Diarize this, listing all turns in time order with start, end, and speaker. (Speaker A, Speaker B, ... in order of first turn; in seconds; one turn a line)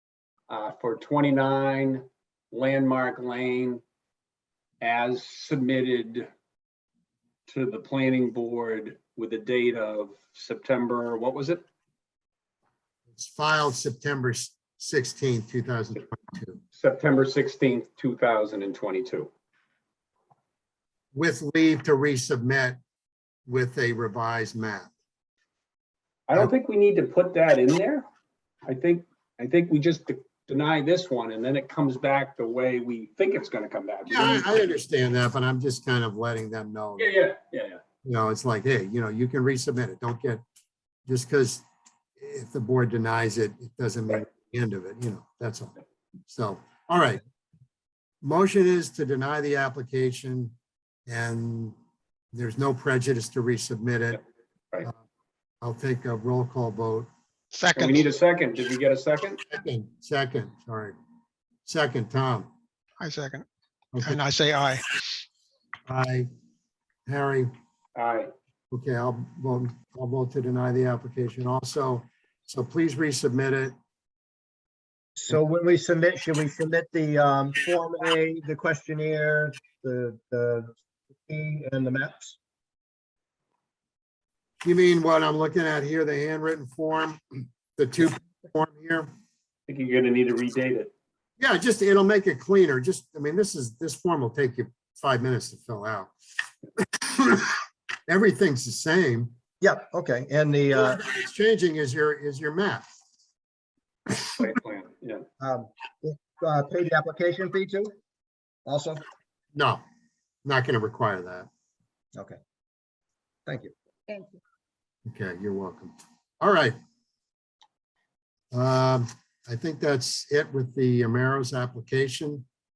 Speaker A: 0.5-3.8
Speaker A: 4.8-6.3
Speaker A: 7.5-11.6
Speaker B: 13.1-16.6
Speaker A: 16.7-19.3
Speaker B: 21.1-22.8
Speaker B: 23.5-24.9
Speaker A: 26.3-28.1
Speaker A: 28.7-34.7
Speaker B: 34.1-37.1
Speaker A: 37.0-37.8
Speaker B: 38.0-40.4
Speaker B: 41.1-41.6
Speaker B: 42.2-45.7
Speaker B: 46.3-47.2
Speaker B: 48.2-50.5
Speaker B: 51.1-51.8
Speaker B: 52.3-54.2
Speaker B: 55.6-57.1
Speaker C: 57.5-58.1
Speaker A: 57.7-59.4
Speaker B: 59.5-60.9
Speaker B: 61.6-62.5
Speaker C: 63.0-63.5
Speaker B: 63.9-64.2
Speaker C: 64.0-65.0
Speaker B: 65.9-66.3
Speaker B: 67.1-67.5
Speaker A: 68.0-68.3
Speaker B: 68.7-73.7
Speaker D: 75.2-80.7
Speaker D: 81.3-82.4
Speaker B: 84.6-89.1
Speaker A: 89.7-90.9
Speaker B: 91.4-96.1
Speaker B: 96.8-97.5
Speaker B: 98.1-99.3
Speaker D: 99.6-101.0
Speaker B: 100.7-103.0
Speaker A: 104.2-105.2
Speaker D: 105.4-107.9
Speaker D: 108.7-109.0
Speaker B: 109.5-109.8
Speaker B: 110.4-111.5
Speaker D: 113.5-113.7
Speaker B: 115.1-116.8
Speaker B: 118.5-122.4